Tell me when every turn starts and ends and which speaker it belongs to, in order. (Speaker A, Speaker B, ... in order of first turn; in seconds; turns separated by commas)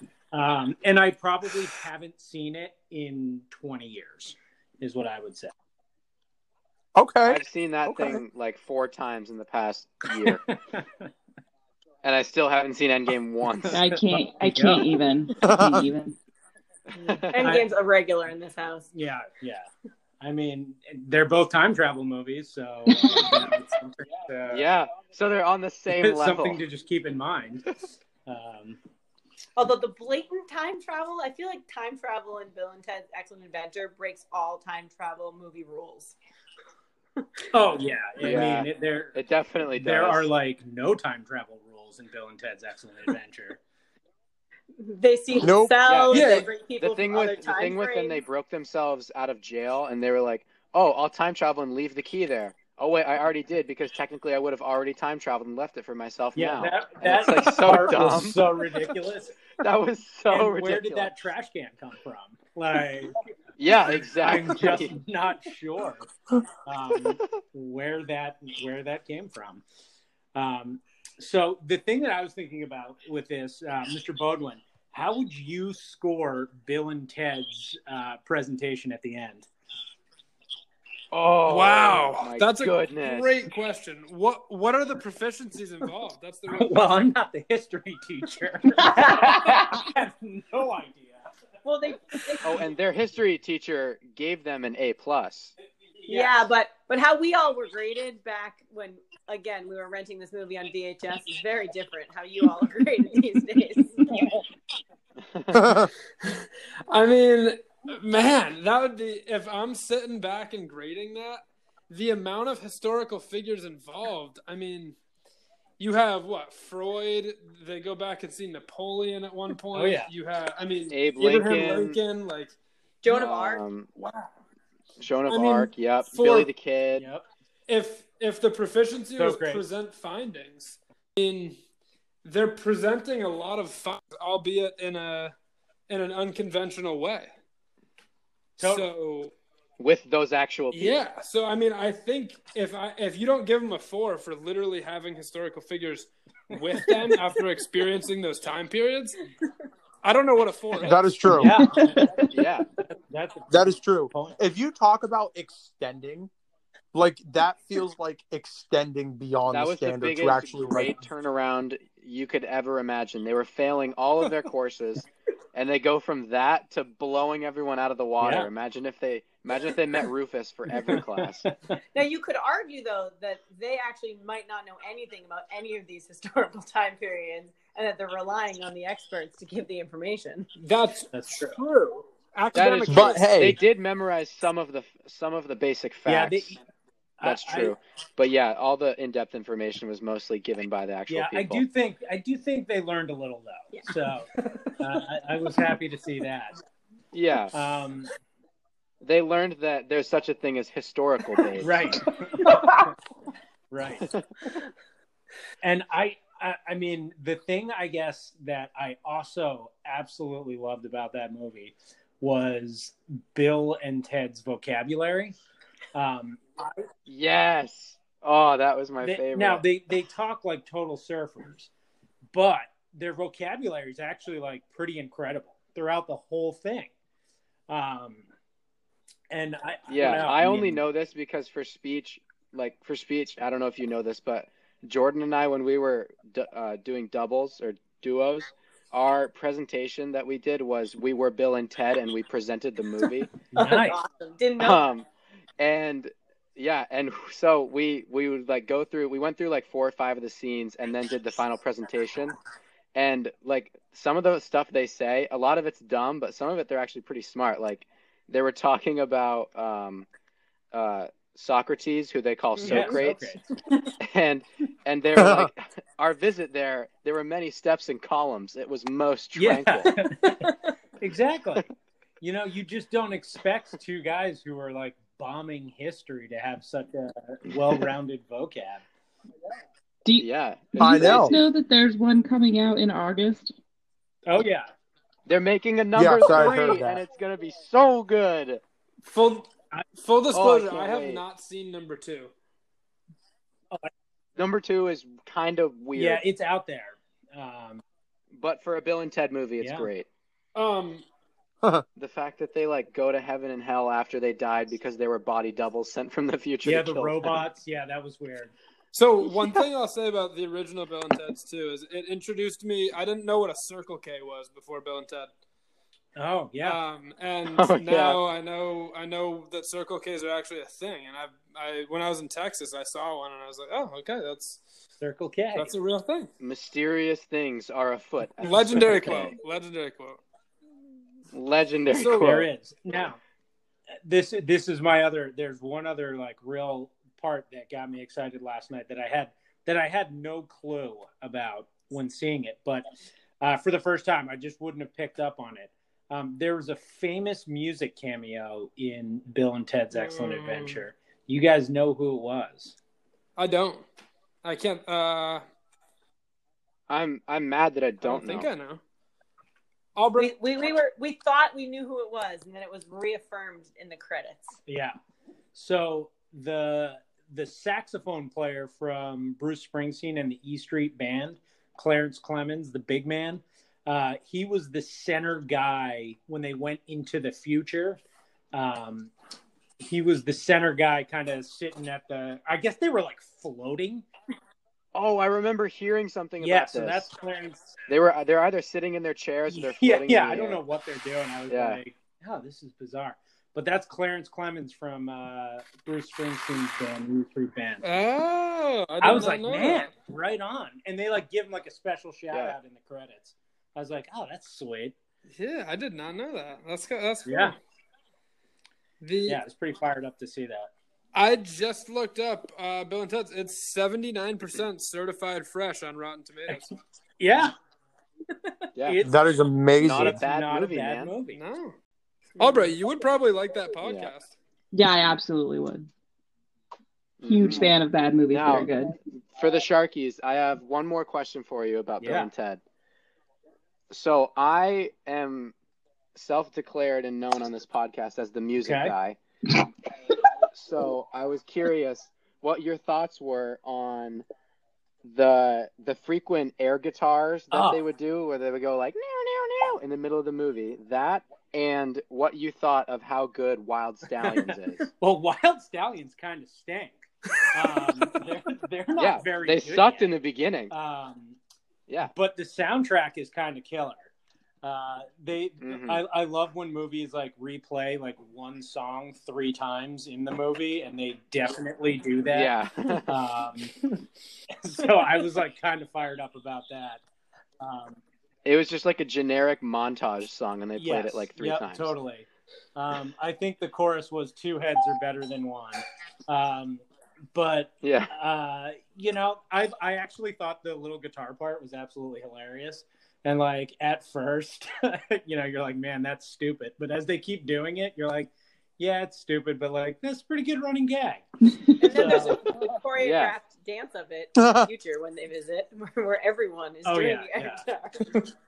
Speaker A: 0.3-5.5, Speaker B: 6.9-8.2, Speaker C: 7.2-10.4, Speaker A: 10.2-11.1, Speaker C: 12.0-13.8, Speaker A: 13.6-14.9, Speaker D: 13.7-16.1, Speaker B: 15.4-15.9, Speaker C: 16.9-17.6, Speaker E: 16.9-18.9, Speaker A: 18.9-19.7, Speaker A: 20.2-24.7, Speaker D: 22.9-23.2, Speaker C: 24.5-26.6, Speaker A: 25.9-27.7, Speaker A: 28.2-28.8, Speaker E: 29.6-36.1, Speaker A: 37.5-39.2, Speaker C: 38.2-40.3, Speaker A: 39.7-43.6, Speaker E: 44.8-48.2, Speaker B: 45.4-45.8, Speaker C: 45.8-58.7, Speaker F: 46.1-46.5, Speaker A: 56.4-59.4, Speaker C: 59.5-61.1, Speaker A: 60.3-66.1, Speaker C: 63.6-64.9, Speaker A: 66.7-69.6, Speaker A: 70.3-79.5, Speaker C: 81.1-83.3, Speaker F: 81.4-86.8, Speaker A: 86.5-91.2, Speaker E: 89.1-89.6, Speaker E: 91.6-92.6, Speaker C: 92.4-95.5, Speaker A: 96.0-96.4, Speaker E: 96.1-104.1, Speaker C: 105.3-105.6, Speaker B: 105.5-105.9, Speaker F: 106.2-115.0, Speaker F: 115.8-122.5, Speaker A: 119.7-120.1, Speaker C: 120.9-122.0, Speaker E: 123.0-123.6, Speaker C: 123.1-123.9, Speaker F: 124.0-124.3, Speaker C: 125.0-127.0, Speaker F: 125.3-126.5, Speaker A: 127.0-127.2, Speaker F: 127.7-131.6, Speaker A: 129.2-129.7, Speaker F: 132.2-135.3, Speaker F: 135.9-137.3, Speaker F: 138.6-139.3, Speaker A: 138.6-138.9, Speaker C: 139.8-141.0, Speaker F: 140.7-149.2, Speaker A: 146.5-147.4, Speaker F: 150.0-151.0, Speaker B: 150.8-151.6, Speaker A: 151.3-152.3, Speaker D: 151.6-152.3, Speaker C: 152.3-152.7, Speaker A: 153.1-154.4, Speaker B: 153.5-156.3, Speaker B: 156.9-161.0, Speaker C: 159.5-171.5, Speaker A: 168.2-168.5, Speaker A: 170.9-171.5, Speaker E: 171.9-180.5, Speaker F: 180.6-183.3, Speaker A: 181.1-181.6, Speaker C: 182.5-186.6, Speaker B: 182.9-183.6, Speaker A: 186.1-186.6, Speaker A: 187.2-187.8, Speaker C: 187.2-191.6, Speaker A: 191.1-194.3, Speaker F: 194.4-194.7, Speaker A: 194.8-196.5, Speaker C: 197.1-197.5, Speaker A: 197.5-198.1, Speaker C: 199.0-202.0, Speaker A: 201.6-202.9, Speaker A: 203.7-204.1, Speaker A: 205.6-215.3, Speaker A: 215.9-216.8, Speaker C: 217.1-219.6, Speaker A: 219.0-221.7, Speaker A: 222.3-226.9, Speaker A: 227.7-228.2, Speaker A: 229.3-230.8, Speaker C: 229.9-243.3, Speaker E: 243.5-244.8, Speaker A: 243.5-244.0, Speaker C: 244.6-245.1, Speaker C: 245.6-252.4, Speaker C: 252.9-260.1, Speaker C: 260.7-263.4, Speaker F: 262.6-262.9, Speaker A: 262.6-263.4, Speaker C: 264.0-269.9, Speaker B: 265.2-265.5, Speaker A: 269.4-270.5, Speaker A: 271.0-271.6, Speaker A: 272.2-278.8, Speaker D: 280.1-283.5, Speaker C: 280.2-281.3, Speaker B: 280.8-281.3, Speaker A: 284.3-284.7, Speaker C: 285.3-288.6, Speaker B: 285.9-287.0, Speaker F: 289.1-292.3, Speaker C: 290.3-291.2, Speaker C: 294.4-296.2, Speaker A: 295.9-297.8, Speaker C: 298.3-300.1, Speaker A: 299.6-299.9, Speaker F: 300.5-301.0, Speaker C: 301.9-307.4, Speaker A: 306.6-308.5, Speaker F: 308.9-315.3, Speaker A: 316.1-316.8, Speaker F: 316.6-324.6, Speaker C: 317.5-318.2, Speaker A: 325.0-325.7, Speaker F: 325.5-326.3, Speaker C: 326.4-329.4, Speaker F: 328.4-330.2, Speaker C: 331.3-332.5, Speaker F: 331.9-332.3, Speaker A: 332.2-333.2, Speaker A: 334.0-342.9, Speaker A: 343.4-352.8, Speaker F: 349.9-350.8, Speaker F: 353.4-353.9, Speaker F: 354.4-355.4, Speaker C: 356.9-358.5, Speaker F: 358.0-358.8, Speaker F: 359.9-360.3, Speaker E: 360.2-364.6, Speaker A: 364.7-364.9, Speaker A: 365.5-378.0, Speaker A: 378.5-379.1, Speaker A: 379.8-384.0, Speaker C: 384.9-387.1, Speaker A: 386.4-387.8, Speaker C: 387.9-390.6, Speaker A: 389.5-397.9, Speaker C: 391.5-391.8, Speaker F: 397.8-399.9, Speaker A: 399.0-404.9, Speaker C: 402.3-402.6, Speaker F: 405.3-407.6, Speaker A: 407.2-407.6, Speaker F: 409.0-409.4, Speaker A: 409.3-410.7, Speaker F: 411.1-416.8, Speaker A: 417.2-417.5, Speaker A: 418.8-419.2, Speaker B: 419.0-420.2, Speaker C: 419.8-421.1, Speaker A: 419.9-421.4, Speaker F: 421.3-421.8, Speaker F: 422.4-424.4, Speaker E: 422.4-422.7, Speaker C: 423.8-424.1, Speaker D: 424.7-425.9, Speaker C: 427.2-427.7, Speaker D: 427.3-428.9, Speaker C: 428.3-428.7, Speaker C: 429.3-432.6, Speaker A: 432.0-432.3, Speaker C: 433.9-435.5, Speaker C: 436.1-439.2, Speaker A: 438.6-438.9, Speaker C: 440.5-444.2, Speaker C: 445.0-454.9, Speaker A: 447.5-447.8, Speaker A: 454.2-460.1, Speaker C: 459.0-460.7, Speaker A: 460.7-461.4, Speaker C: 461.9-462.1, Speaker A: 462.0-464.1, Speaker A: 464.6-472.5, Speaker C: 465.6-466.0, Speaker C: 472.3-473.2, Speaker A: 473.1-473.9, Speaker A: 474.5-477.0, Speaker A: 477.6-478.0, Speaker C: 478.4-481.9, Speaker A: 480.8-486.8, Speaker A: 487.3-501.2, Speaker C: 487.8-488.1, Speaker E: 501.8-508.2, Speaker A: 501.8-502.4, Speaker C: 503.0-503.4, Speaker B: 504.4-504.7, Speaker A: 506.8-507.6